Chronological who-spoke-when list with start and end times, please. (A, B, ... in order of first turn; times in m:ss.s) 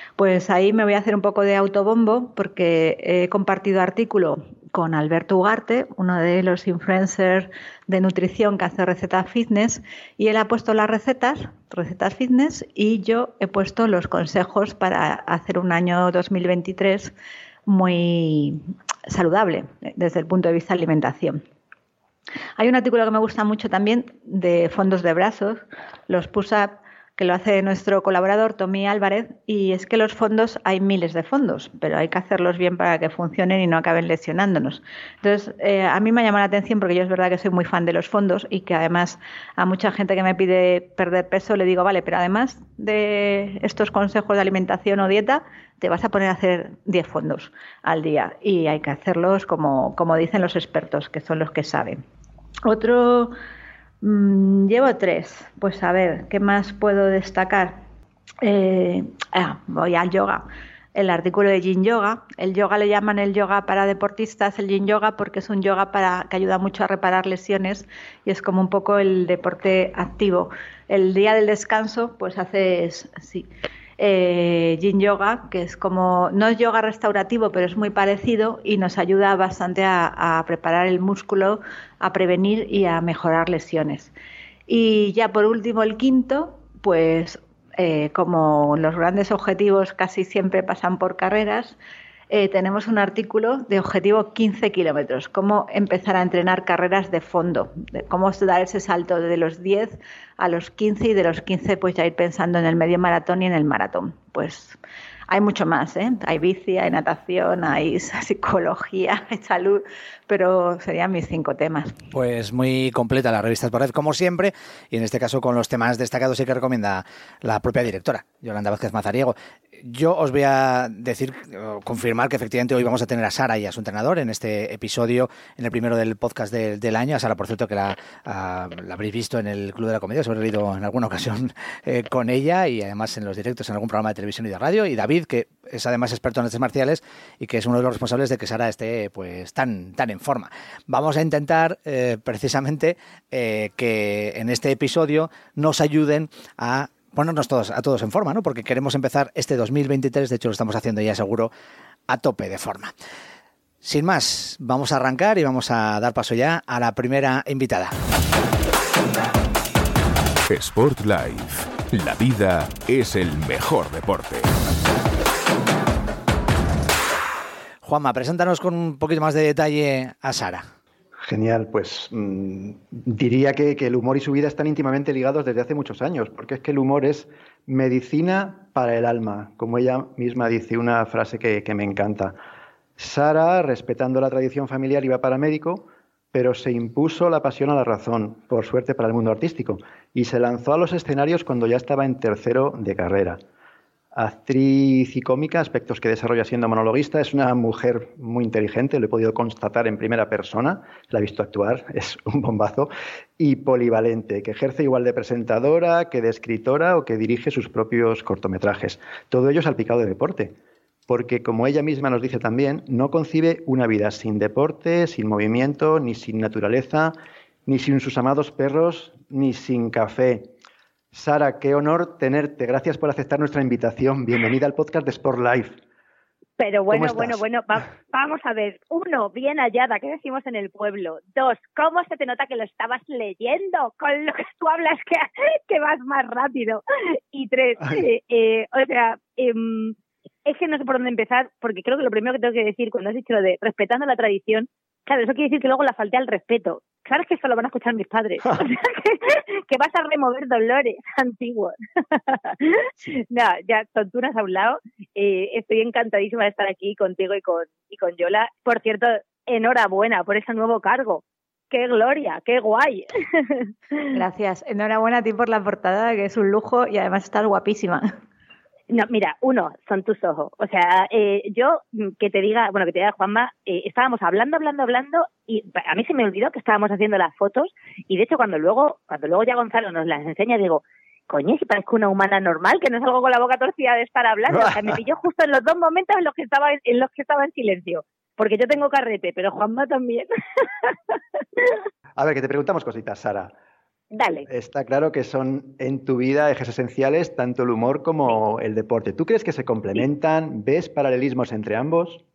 0:00.2-0:17.1 A
0:17.7-0:21.4 A
0:22.6-0:52.0 A
0:52.6-0:53.4 A
0:54.0-0:57.8 A
0:58.4-1:24.1 A
1:24.7-1:31.8 A
1:32.3-1:52.0 A
1:52.1-2:31.5 B
2:32.1-2:33.0 B
2:33.8-2:38.0 B
2:40.5-2:44.5 C
2:47.8-2:50.7 B
2:51.2-3:02.4 D
3:03.0-3:13.4 D
3:14.1-3:30.6 D
3:31.1-3:37.2 D
3:37.7-3:40.5 D
3:41.1-3:45.8 D
3:46.6-4:23.7 E
3:46.9-3:47.4 D
4:24.1-4:28.1 A
4:28.9-4:50.3 E
4:44.5-4:44.9 D
4:52.2-4:53.5 D
4:54.1-4:54.5 E
4:54.5-5:02.2 D